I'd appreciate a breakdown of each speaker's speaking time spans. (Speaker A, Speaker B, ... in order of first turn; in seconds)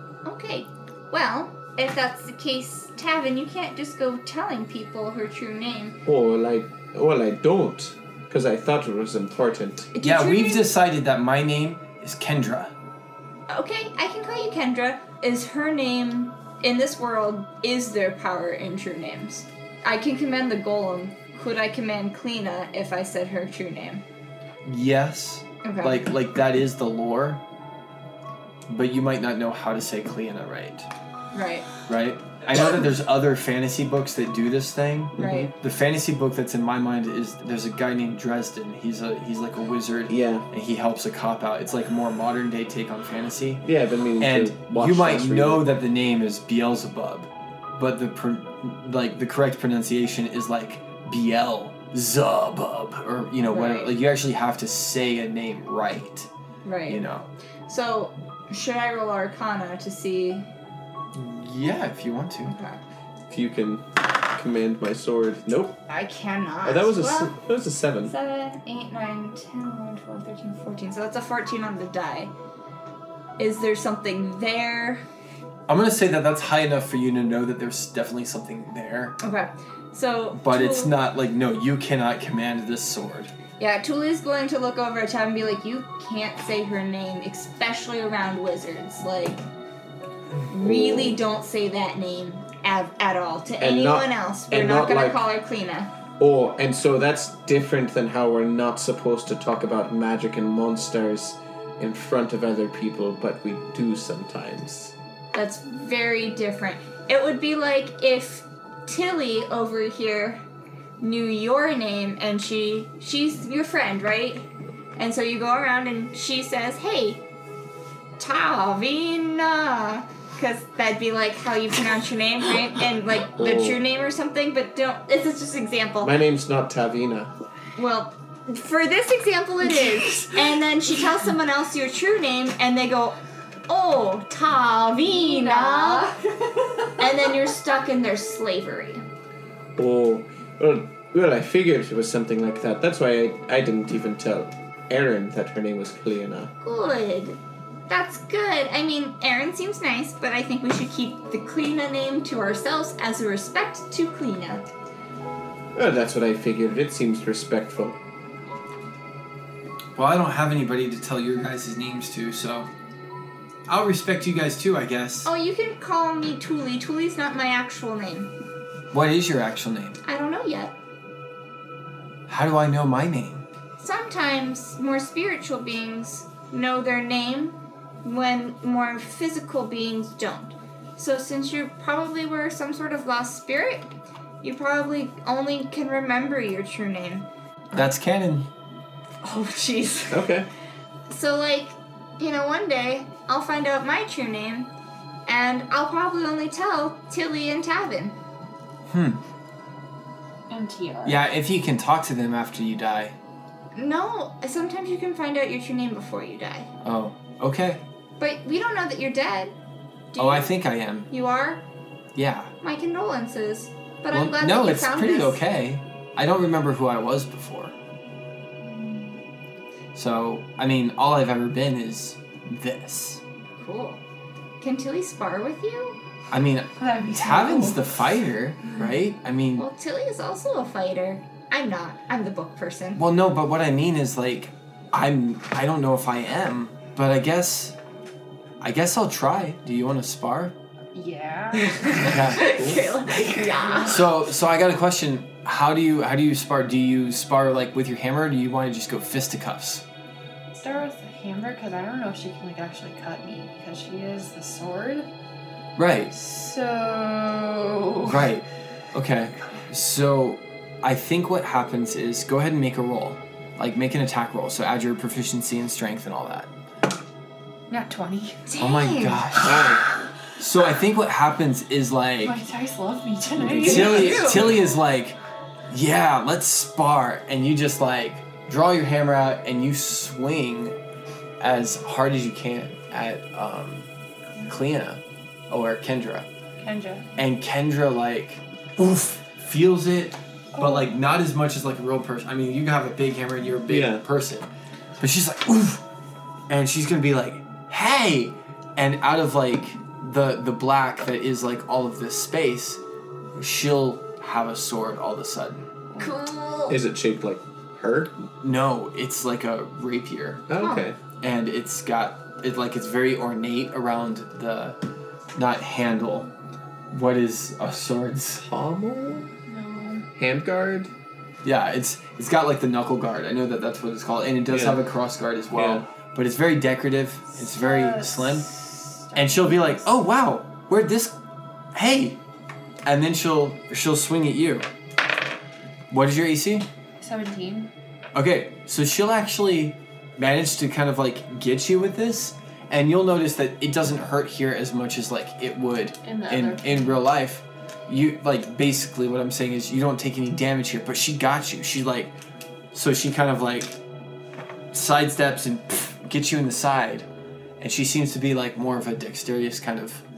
Speaker A: 0.2-6.0, 9.9-10.7, 13.5-24.0, 25.6-26.0, 31.3-31.7, 35.2-35.5, 53.5-54.0, 56.6-57.0, 57.7-60.5, 62.5-62.8, 65.9-67.3, 68.0-72.3, 73.4-75.0, 79.2-80.9, 83.6-89.4, 90.5-95.9, 105.3-110.4, 111.0-117.2, 118.2-126.1, 127.8-136.2, 137.0-139.0, 146.6-154.7, 165.2-168.3, 170.1-170.8, 173.8-187.3, 189.2-190.3, 191.1-194.7, 195.3-198.2, 203.7-206.7, 208.2-209.6, 210.1-210.5, 211.1-211.6, 212.6-215.4, 223.6-224.0, 224.6-226.0, 229.6-233.0, 241.9-244.1, 268.5-269.5, 274.0-274.4, 306.0-306.8, 310.6-310.9
Speaker B: 6.1-9.9, 35.2-35.5, 40.1-40.5, 43.6-45.7, 63.3-65.8, 66.6-68.1, 90.6-91.2, 93.6-95.2, 96.2-105.0, 123.3-123.8, 126.0-127.3, 139.8-146.5, 155.7-158.0, 190.1-190.5, 242.4-243.3, 269.4-269.9, 273.4-274.6, 293.7-294.0, 306.7-308.1, 310.5-311.0, 318.4-319.3, 320.2-320.9, 324.5-324.8, 325.6-325.9
Speaker C: 10.0-12.7, 24.6-27.4, 28.7-30.9, 31.9-43.7, 44.2-56.3, 56.9-57.3, 61.1-62.5, 75.7-79.2, 80.3-83.3, 160.0-162.7, 163.7-165.3, 168.9-170.0, 172.3-173.4, 187.7-188.5, 198.9-199.2, 201.1-203.2, 206.8-207.8, 210.2-211.1, 212.2-212.5, 214.1-217.8, 219.9-223.2, 226.3-229.7, 233.0-237.8, 238.6-240.6, 242.0-242.6, 243.9-249.8, 255.8-256.1, 258.0-266.5, 268.6-269.8, 270.4-272.4, 273.6-275.2, 275.7-280.8, 281.4-283.9, 284.5-286.3, 287.2-294.5, 295.0-295.8, 296.5-302.8, 303.4-305.7, 308.4-310.4, 311.2-314.8, 315.4-316.3, 316.9-318.5, 321.4-328.5, 329.1-331.2, 331.7-332.2, 332.9-334.7, 335.9-336.7, 338.1-352.2, 352.7-353.8, 354.7-357.1, 357.6-360.0
Speaker D: 129.6-130.4, 135.1-137.5, 200.5-201.2, 226.8-228.0, 240.9-242.6, 243.2-244.1, 250.5-255.1, 256.1-258.3, 267.7-268.4, 272.2-274.6, 286.6-287.1, 290.5-290.9, 319.5-320.1, 327.4-329.8, 337.0-337.7, 346.0-347.0